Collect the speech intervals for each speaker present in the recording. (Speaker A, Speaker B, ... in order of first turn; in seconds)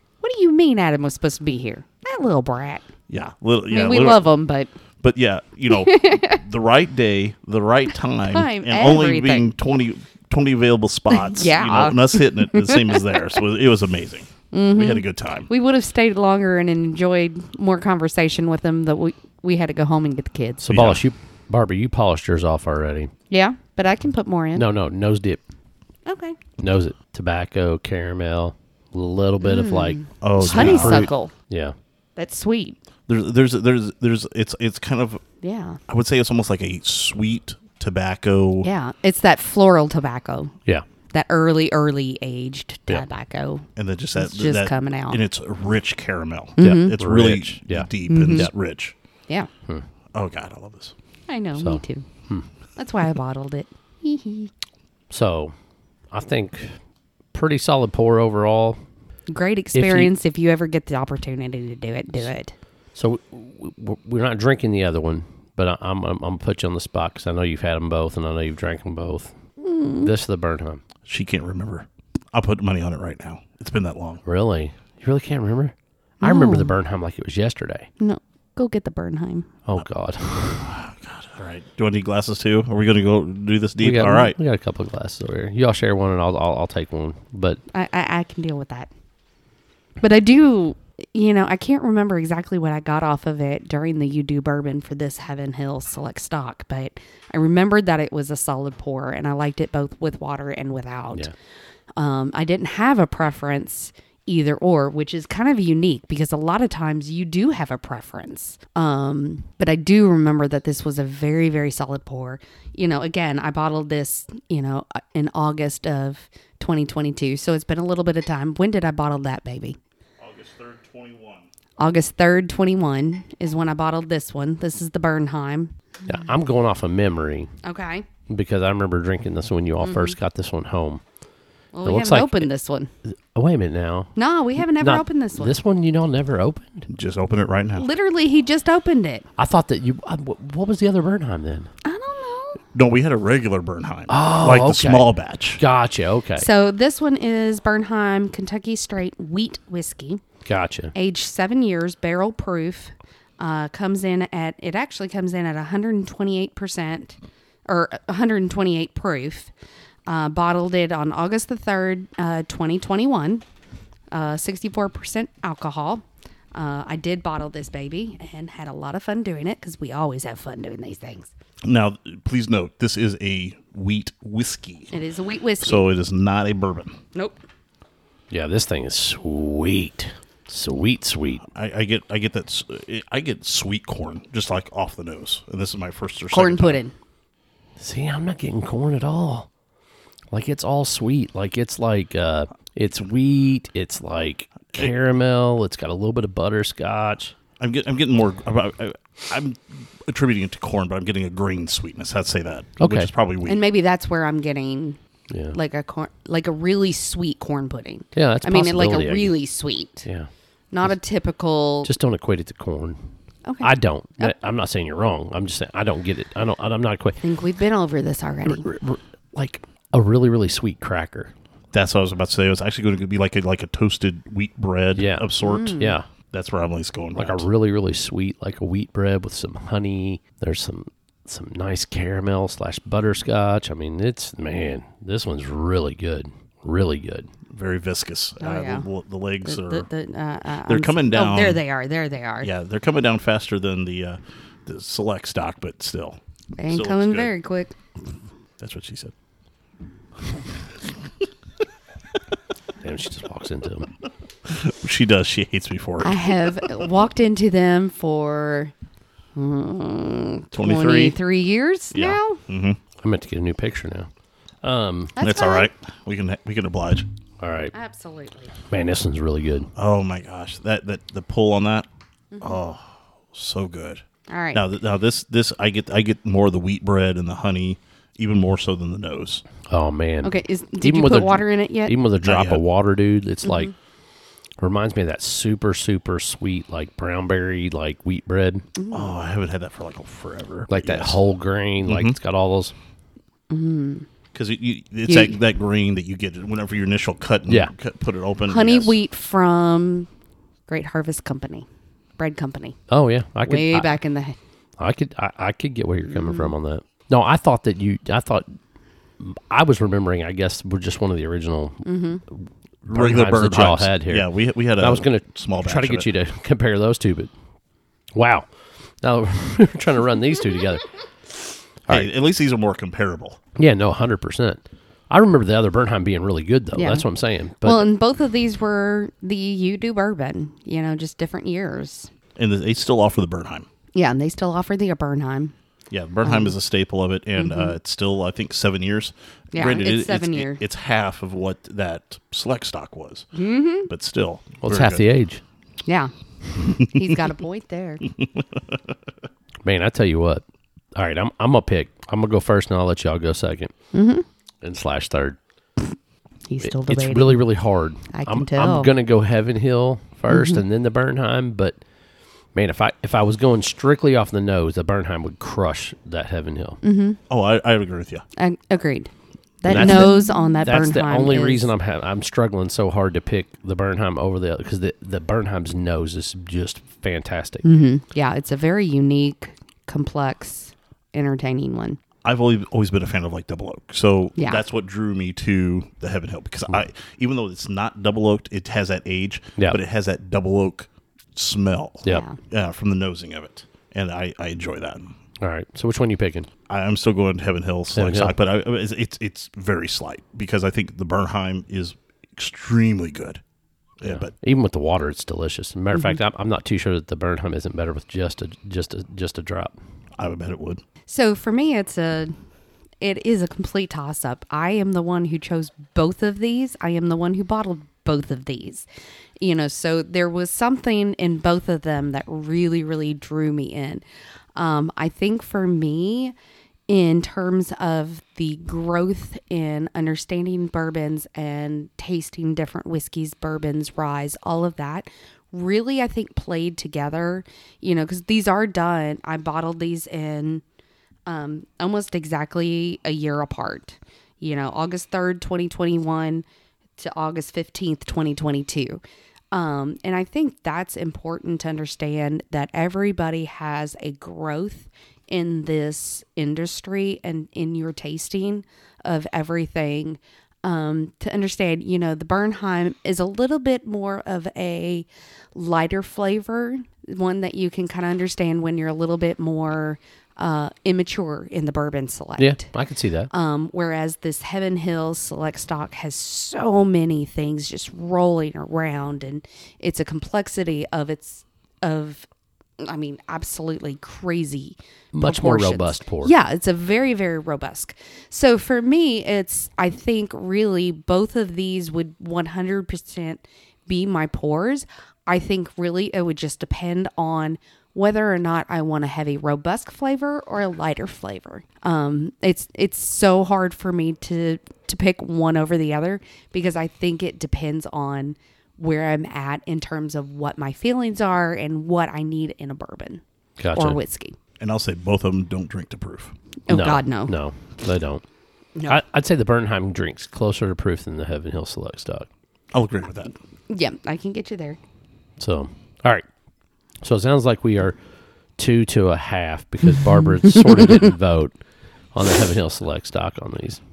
Speaker A: 0.2-2.9, 3.7-4.7, 5.7-6.4, 8.3-9.5, 11.1-13.4, 14.5-20.6, 23.3-24.7, 26.1-26.4, 29.4-31.3, 32.2-32.8, 35.4-35.8, 38.6-40.6, 41.1-45.2, 46.6-47.0, 48.1-48.5, 51.3-52.1, 52.8-54.5, 59.3-62.5, 69.6-70.1, 76.2-76.8, 78.0-79.5, 87.7-88.9, 90.0-101.3, 102.0-119.8, 121.8-125.7, 127.6-128.1, 129.8-130.2, 131.7-132.9, 134.2-135.6, 137.8-139.3, 141.8-142.6, 146.4-150.2, 150.9-159.5, 160.1-163.4, 164.1-171.3, 174.9-175.9, 186.3-186.9, 203.4-205.0, 205.5-210.1, 210.7-211.9, 213.4-214.3, 217.2-218.7, 225.4-225.9, 238.4-238.9, 239.4-242.5, 246.6-247.8, 256.0-258.7, 259.4-262.4, 265.2-265.7, 267.7-268.5, 272.3-272.6, 274.3-274.6, 280.2-281.9, 283.4-283.7, 288.8-289.1, 293.5-294.1, 295.1-295.4, 298.5-300.1, 300.7-301.7, 302.2-302.8, 303.5-304.4, 306.1-306.5, 311.9-312.2, 326.8-327.1, 327.6-332.1, 333.9-335.5, 336.2-336.6, 337.4-337.8, 339.5-340.6, 343.4-343.9, 345.9-348.1, 353.9-354.2, 356.5-357.4, 358.1-358.9, 360.3-360.6, 366.8-367.2, 368.4-369.1, 369.6-371.7, 377.6-382.0, 384.4-384.6, 392.1-392.4, 411.1-412.3, 413.0-418.9, 419.4-424.0, 424.6-426.4, 426.9-440.6, 441.3-446.4, 447.0-449.0, 449.5-472.7, 473.3-482.3, 482.8-513.2, 513.7-514.4, 516.7-517.3, 523.7-524.8
Speaker B: 3.1-4.3, 5.0-15.5, 20.6-21.0, 30.2-31.1, 33.1-35.2, 35.9-38.7, 43.8-49.0, 50.1-50.9, 71.1-74.2, 80.6-84.4, 120.2-121.5, 136.9-137.9, 142.7-145.6, 171.6-174.9, 175.6-177.0, 181.5-186.8, 197.6-203.7, 221.7-225.8, 226.3-227.5, 237.5-239.9, 240.7-241.6, 242.4-247.3, 248.6-249.1, 250.3-251.0, 254.5-256.9, 260.5-261.2, 262.5-262.8, 265.2-267.1, 269.8-271.9, 272.4-279.4, 282.2-282.6, 288.9-291.2, 291.8-292.2, 294.3-299.0, 312.9-316.1, 321.9-323.4, 332.4-333.7, 335.9-343.3, 343.9-345.1, 346.6-347.1, 348.1-348.8, 367.3-368.2, 369.7-370.1, 382.2-395.1, 396.7-403.4, 404.0-404.3, 410.2-410.8, 514.6-516.3, 522.7-523.3
Speaker C: 20.6-23.1, 24.6-25.4, 26.6-31.8, 46.6-48.5, 51.6-52.5, 55.1-55.5, 56.1-56.8, 57.3-58.8, 59.7-60.1, 63.0-69.3, 70.0-70.8, 74.2-77.9, 79.7-80.7, 83.8-87.6, 126.1-127.5, 128.3-131.0, 131.8-132.5, 133.1-134.1, 134.8-136.9, 139.4-141.7, 144.1-146.5, 150.4-150.9, 178.3-181.4, 187.8-189.5, 190.3-197.3, 202.8-203.1, 205.3-205.6, 208.2-209.4, 211.8-213.0, 213.6-217.2, 218.5-221.3, 225.0-226.1, 227.2-237.3, 252.8-253.9, 261.9-262.2, 263.0-264.1, 264.6-265.1, 267.4-267.7, 268.7-269.7, 279.7-283.7, 284.6-288.7, 290.7-292.7, 302.9-303.9, 304.8-308.6, 309.2-314.3, 314.8-317.3, 318.1-318.5, 319.0-320.9, 323.6-327.9, 344.6-345.4, 349.6-350.4, 350.9-353.7, 354.6-355.4, 356.6-361.8, 362.5-366.8, 369.7-377.6, 395.4-396.5, 397.9-398.4, 404.0-409.8, 472.4-473.3, 485.1-486.3, 513.6-514.0, 516.7-518.2, 518.9-522.3, 525.4-526.2, 527.0-528.0, 528.6-531.6, 532.1-533.8